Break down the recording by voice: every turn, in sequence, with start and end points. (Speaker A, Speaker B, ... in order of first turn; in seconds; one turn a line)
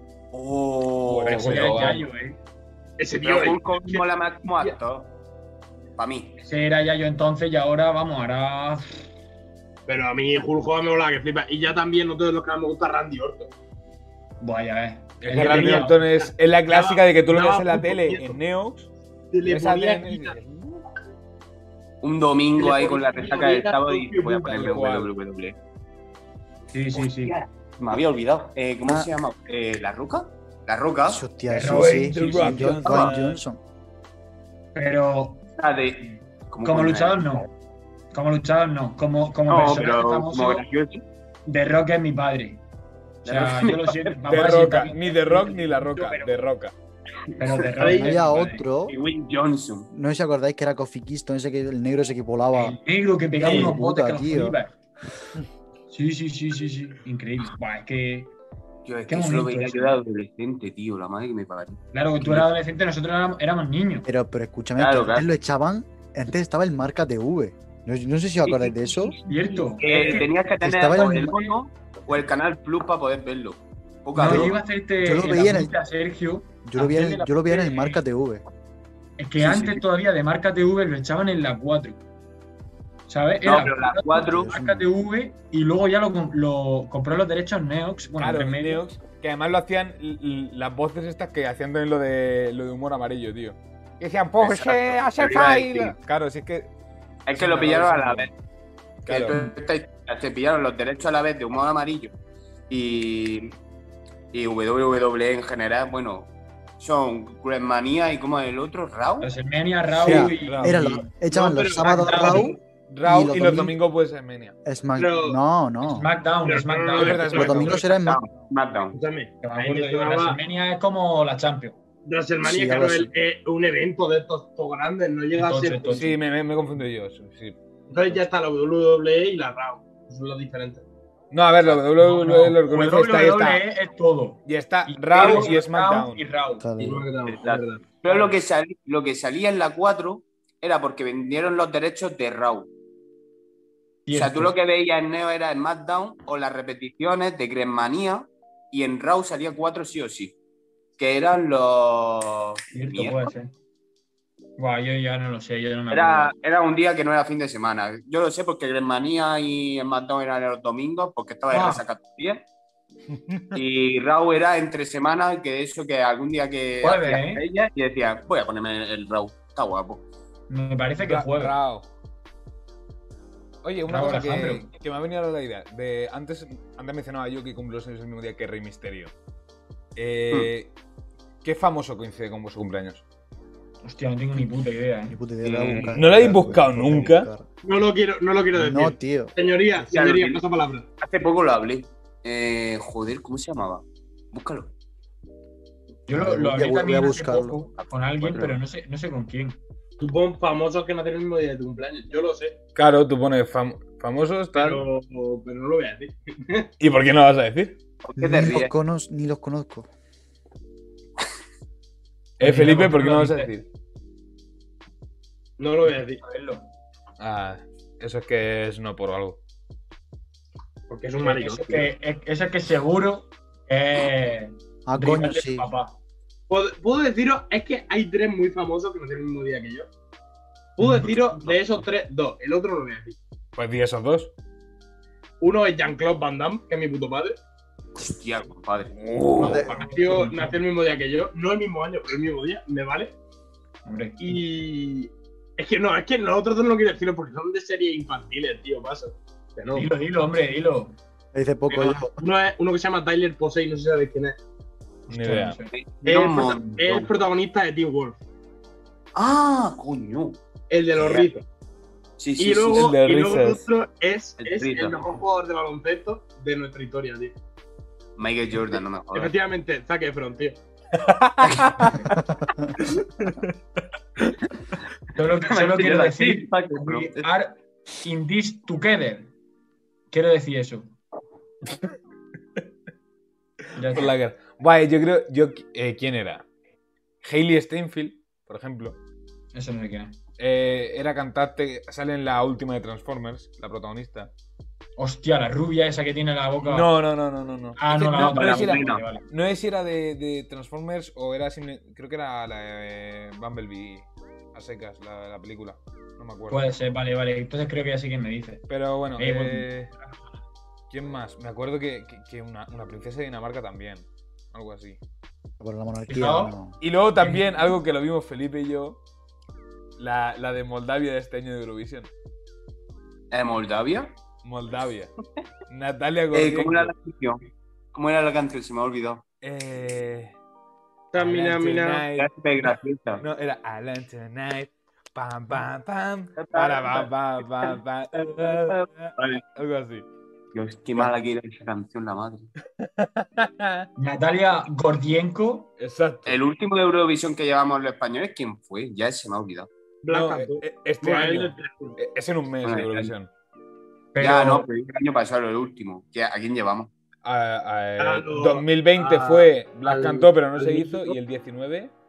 Speaker A: 0.3-2.0
Speaker B: 1.1-2.0
Speaker C: 1.3-2.4
Speaker D: 3.0-4.0
Speaker A: 3.2-5.1
Speaker A: 6.0-6.4
Speaker C: 6.4-9.1
Speaker D: 9.9-13.5
Speaker C: 14.4-16.0
Speaker B: 15.2-18.9
Speaker D: 15.4-18.4
Speaker D: 19.3-20.4
Speaker B: 19.4-20.9
Speaker A: 22.0-25.6
Speaker D: 22.6-24.7
Speaker B: 24.4-25.1
Speaker C: 26.7-27.4
Speaker A: 26.9-31.2
Speaker E: 31.1-33.6
Speaker C: 31.5-33.1
Speaker B: 31.6-33.4
Speaker C: 34.7-35.5
Speaker A: 35.6-37.5
Speaker C: 36.6-37.5
Speaker C: 38.1-40.6
Speaker A: 39.5-41.0
Speaker C: 41.5-42.6
Speaker C: 43.2-46.4
Speaker A: 43.2-44.2
Speaker B: 44.3-46.7
Speaker A: 47.3-47.6
Speaker C: 47.4-48.7
Speaker D: 47.8-48.2
Speaker E: 47.8-49.0
Speaker A: 48.9-49.9
Speaker E: 49.9-52.8
Speaker C: 52.5-54.7
Speaker E: 53.4-54.6
Speaker D: 53.4-53.8
Speaker C: 55.9-58.3
Speaker A: 58.9-62.5
Speaker C: 59.1-60.0
Speaker C: 61.9-64.1
Speaker E: 64.0-69.2
Speaker A: 64.8-65.3
Speaker A: 68.5-74.6
Speaker C: 69.3-70.3
Speaker E: 70.6-71.4
Speaker C: 74.2-78.0
Speaker E: 74.2-75.8
Speaker E: 76.7-78.4
Speaker C: 79.2-82.0
Speaker A: 79.4-79.8
Speaker C: 83.1-88.8
Speaker A: 83.4-84.5
Speaker E: 84.3-84.9
Speaker B: 88.2-96.7
Speaker A: 94.4-96.0
Speaker A: 97.3-98.3
Speaker B: 97.4-98.3
Speaker C: 97.6-97.9
Speaker B: 99.1-99.4
Speaker A: 99.1-102.1
Speaker A: 102.7-103.6
Speaker A: 104.3-109.3
Speaker C: 109.2-111.1
Speaker E: 109.9-113.8
Speaker B: 110.1-110.9
Speaker D: 111.3-112.5
Speaker C: 111.8-112.6
Speaker B: 112.9-114.6
Speaker E: 114.7-116.1
Speaker D: 115.0-115.4
Speaker C: 115.8-117.9
Speaker D: 116.5-117.8
Speaker B: 116.9-117.8
Speaker E: 117.3-118.2
Speaker A: 117.8-119.0
Speaker D: 118.9-120.4
Speaker C: 119.4-121.8
Speaker D: 122.0-126.1
Speaker E: 122.4-123.1
Speaker C: 125.3-126.2
Speaker B: 125.9-127.6
Speaker D: 127.9-130.8
Speaker B: 131.3-133.6
Speaker C: 132.0-136.7
Speaker B: 134.4-136.3
Speaker D: 135.2-135.5
Speaker E: 136.6-137.1
Speaker D: 136.8-138.3
Speaker A: 137.3-142.7
Speaker C: 144.1-144.5
Speaker A: 144.1-150.4
Speaker A: 151.0-153.3
Speaker C: 152.7-153.5
Speaker C: 154.6-156.3
Speaker A: 155.9-162.4
Speaker C: 161.5-161.8
Speaker B: 163.1-163.6
Speaker A: 163.5-170.1
Speaker C: 166.8-167.4
Speaker C: 170.5-171.6
Speaker B: 171.0-171.9
Speaker B: 173.6-179.1
Speaker C: 173.9-174.7
Speaker B: 180.0-180.7
Speaker B: 181.4-183.0
Speaker C: 183.8-185.2
Speaker E: 185.1-187.5
Speaker A: 185.4-186.0
Speaker B: 185.9-187.3
Speaker D: 187.6-190.9
Speaker E: 188.5-189.3
Speaker A: 189.9-190.4
Speaker A: 191.0-194.7
Speaker C: 196.1-199.6
Speaker E: 196.1-197.6
Speaker A: 197.8-198.6
Speaker D: 200.0-202.6
Speaker B: 202.8-204.8
Speaker D: 204.6-206.7
Speaker B: 206.8-207.8
Speaker A: 208.0-208.7
Speaker E: 208.2-209.9
Speaker B: 212.4-213.7
Speaker C: 212.4-213.5
Speaker D: 215.6-216.2
Speaker C: 216.2-216.7
Speaker B: 217.2-219.4
Speaker D: 220.9-221.9
Speaker C: 221.2-226.0
Speaker E: 224.9-225.7
Speaker D: 226.5-229.9
Speaker D: 230.8-233.2
Speaker C: 230.8-231.4
Speaker B: 233.6-234.3
Speaker D: 235.4-237.4
Speaker A: 238.0-238.9
Speaker B: 239.0-239.7
Speaker E: 239.4-239.8
Speaker D: 239.4-243.2
Speaker C: 239.4-240.6
Speaker C: 243.8-244.4
Speaker D: 244.2-249.9
Speaker C: 249.7-251.0
Speaker E: 251.3-252.2
Speaker D: 251.7-254.4
Speaker C: 255.1-255.7
Speaker B: 255.1-255.6
Speaker A: 255.7-257.1
Speaker D: 256.0-258.2
Speaker A: 259.1-260.4
Speaker D: 260.7-261.4
Speaker A: 261.0-261.3
Speaker A: 262.2-262.9
Speaker D: 262.4-267.4
Speaker B: 262.7-263.6
Speaker A: 264.4-265.1
Speaker A: 268.2-269.3
Speaker D: 269.1-270.6
Speaker B: 271.0-272.1
Speaker B: 272.9-273.6
Speaker C: 275.1-279.3
Speaker A: 275.4-277.3
Speaker C: 280.1-280.9
Speaker C: 283.7-284.1
Speaker B: 283.9-286.5
Speaker B: 287.2-289.0
Speaker C: 289.5-290.2
Speaker B: 290.4-294.3
Speaker C: 295.0-296.9
Speaker B: 296.6-306.7
Speaker C: 297.8-299.2
Speaker A: 297.9-299.1
Speaker C: 306.5-310.2
Speaker B: 308.7-309.9
Speaker B: 310.9-315.0
Speaker E: 315.6-316.8
Speaker C: 316.1-316.6
Speaker B: 316.8-319.0
Speaker B: 320.0-322.1
Speaker A: 323.3-324.1
Speaker B: 324.4-325.1
Speaker B: 325.7-326.9
Speaker A: 326.3-327.4
Speaker A: 327.9-329.2
Speaker B: 329.4-330.4
Speaker D: 331.1-332.1
Speaker B: 331.1-340.1
Speaker A: 332.2-333.2
Speaker A: 336.4-337.1
Speaker A: 338.3-339.4
Speaker A: 340.5-342.5
Speaker B: 342.8-343.9
Speaker C: 344.0-345.7
Speaker B: 345.8-346.4
Speaker A: 346.3-349.7
Speaker D: 350.0-352.0
Speaker B: 350.1-353.3
Speaker A: 352.6-353.1
Speaker C: 354.1-354.7
Speaker A: 354.2-356.9
Speaker B: 357.2-361.9
Speaker D: 358.0-361.2